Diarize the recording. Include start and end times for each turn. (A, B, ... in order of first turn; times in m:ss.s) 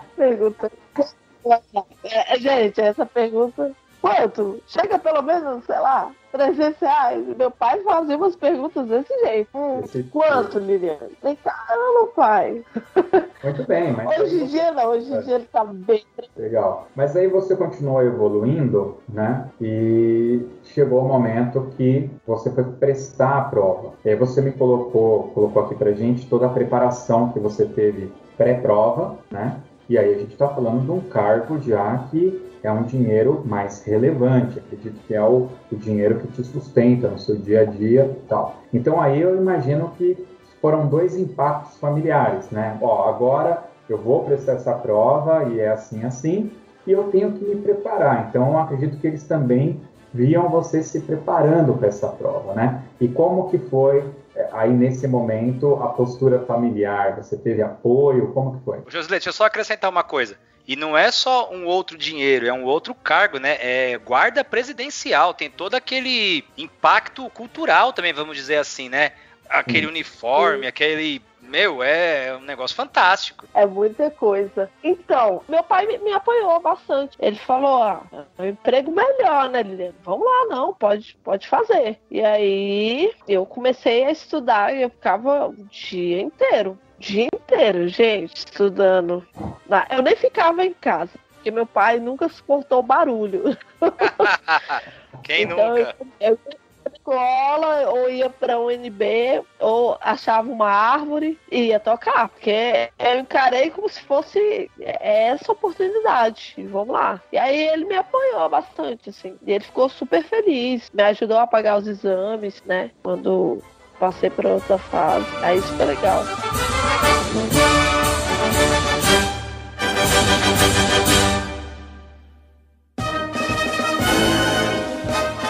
0:00.2-0:13.2 A
0:09.7-0:10.6 B
0:13.4-0:15.3 B
0:14.0-0:16.3 A
0:16.4-0:58.8 B
0:58.9-1:13.4 C
1:10.4-1:10.7 A
1:13.5-1:34.3 A
1:34.0-1:35.9 C
1:35.4-1:56.3 A